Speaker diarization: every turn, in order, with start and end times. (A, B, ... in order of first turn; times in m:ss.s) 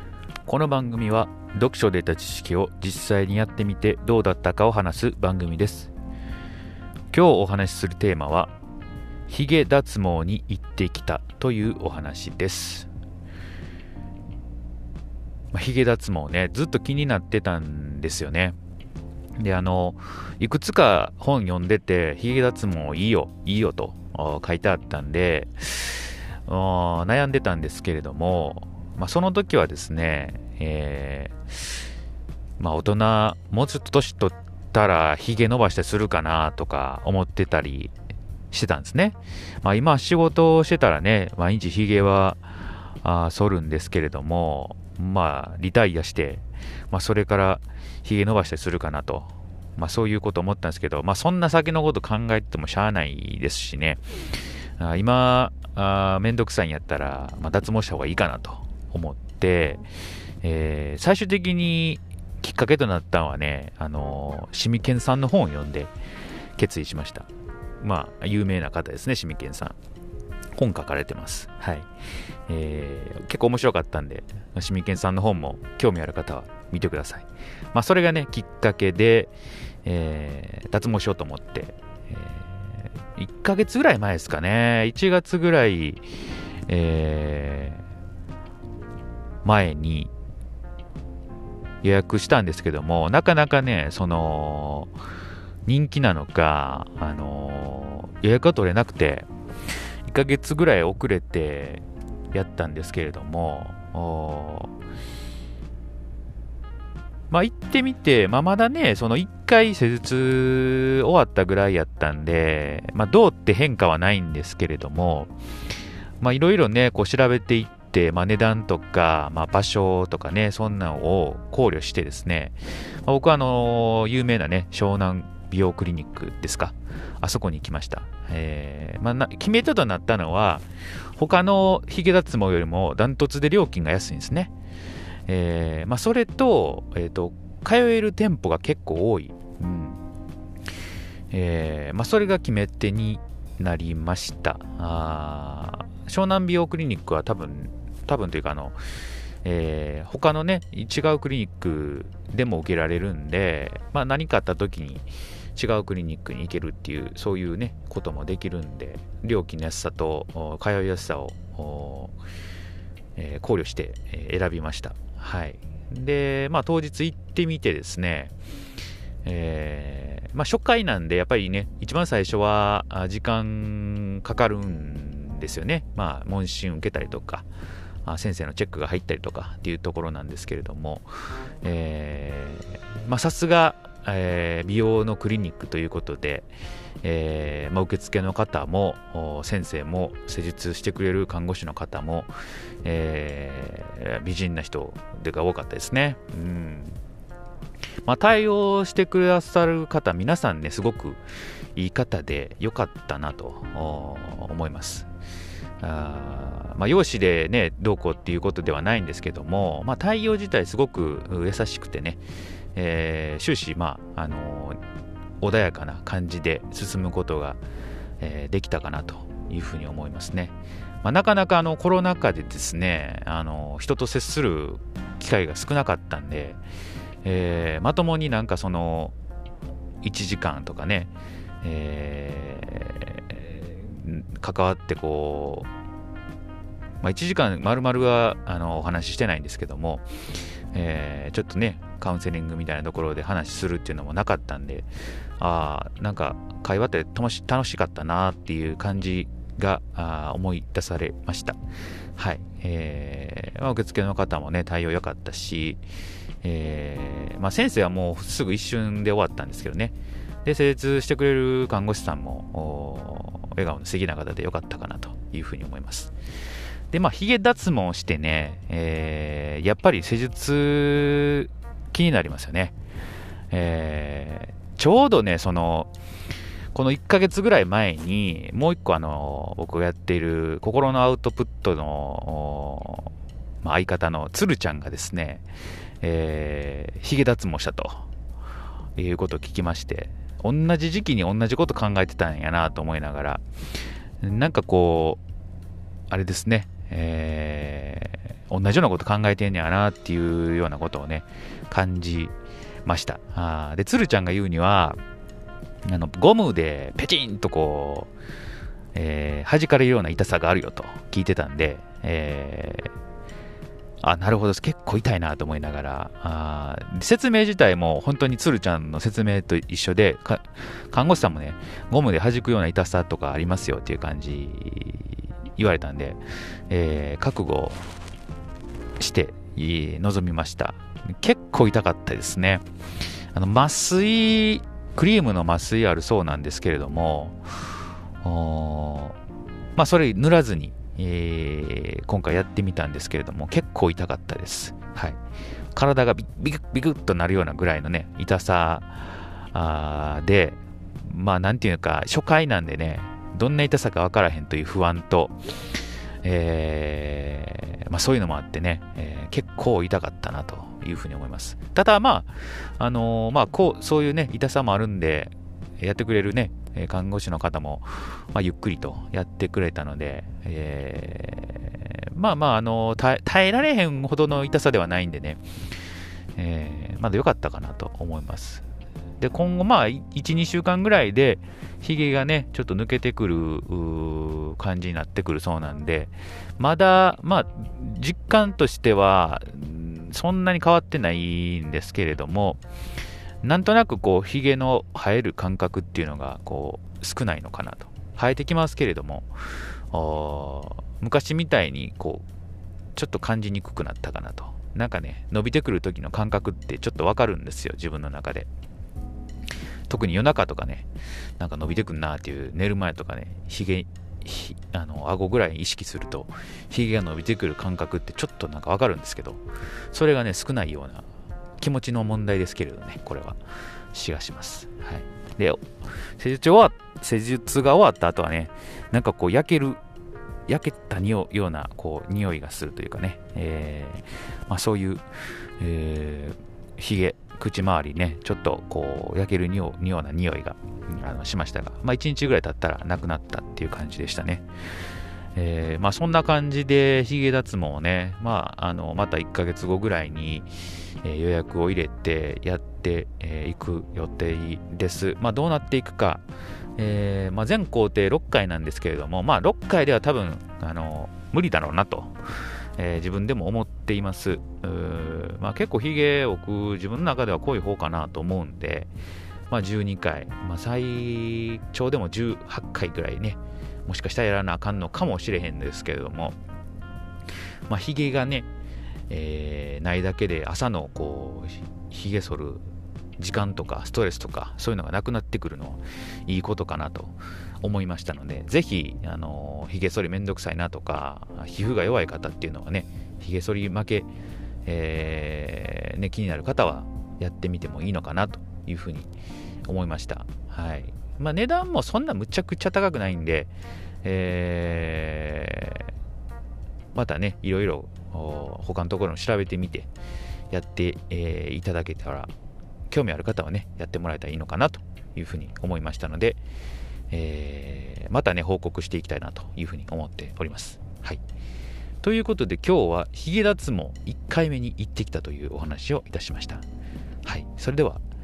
0:00.5-0:05.9 A
0:07.1-0:08.5 A
0:09.3-0:12.9 A
0:15.5-0:18.6 A
0:19.4-0:31.8 A
0:32.6-0:37.9 A
0:38.5-0:42.4 A
0:43.0-0:54.0 A
0:54.8-0:59.8 A
1:00.4-1:05.9 A
1:06.6-1:07.3 A
1:07.8-1:09.8 A
1:10.6-1:11.9 A
1:12.5-1:19.3 A
1:19.8-1:26.1 A
1:26.7-1:27.8 A
1:29.4-1:30.1 A
1:31.8-1:34.9 A
1:35.7-1:39.3 A
1:40.0-1:44.7 A
1:47.3-1:55.3 A
1:56.2-2:10.6 A
2:11.2-2:14.5 A
2:15.3-2:20.0 A
2:21.3-2:28.8 A
2:29.4-2:42.2 A
2:43.2-2:48.3 A
2:49.2-2:57.5 A
2:58.0-3:06.5 A
3:07.0-3:12.3 A
3:12.8-3:17.0 A
3:18.0-3:21.2 A
3:21.8-3:25.1 A
3:25.8-3:32.2 A
3:32.8-3:34.8 A
3:35.4-3:37.6 A
3:38.2-3:46.6 A
3:47.2-3:49.1 A
3:50.0-3:51.1 A
3:51.6-3:55.7 A
3:57.0-4:11.6 A
4:12.2-4:15.8 A
4:16.4-4:26.1 A
4:26.9-4:32.8 A
4:33.5-4:35.9 A
4:36.7-4:45.4 A
4:46.0-4:48.1 A
4:49.0-4:53.4 A
4:54.2-4:55.2 A
4:56.1-5:02.3 A
5:02.8-5:05.0 A
5:05.8-5:08.1 A
5:09.0-5:12.9 A
5:14.0-5:27.8 A
5:29.0-5:32.6 A
5:33.3-5:37.7 A
5:38.2-5:39.2 A
5:39.8-5:45.2 A
5:45.7-6:15.4 A
6:16.4-6:18.6 A
6:19.2-6:32.6 A
6:33.4-6:39.3 A
6:39.9-6:42.2 A
6:43.0-6:48.5 A
6:49.9-6:50.9 A
6:51.4-6:59.4 A
6:59.9-7:01.1 A
7:01.6-7:03.4 A
7:03.9-7:05.7 A
7:06.2-7:09.8 A
7:10.5-7:15.0 A
7:15.6-7:24.4 A
7:25.4-7:30.5 A
7:31.0-7:36.2 A
7:36.8-7:42.2 A
7:42.8-7:48.9 A
7:49.5-7:56.4 A
7:57.7-7:58.5 A
7:59.1-8:02.6 A
8:03.2-8:14.1 A
8:14.6-8:19.1 A
8:19.7-8:23.5 A
8:24.0-8:25.9 A
8:26.9-8:29.9 A
8:30.5-8:32.3 A
8:32.9-8:36.4 A
8:37.1-8:41.2 A
8:42.0-8:46.6 A
8:47.2-8:48.0 A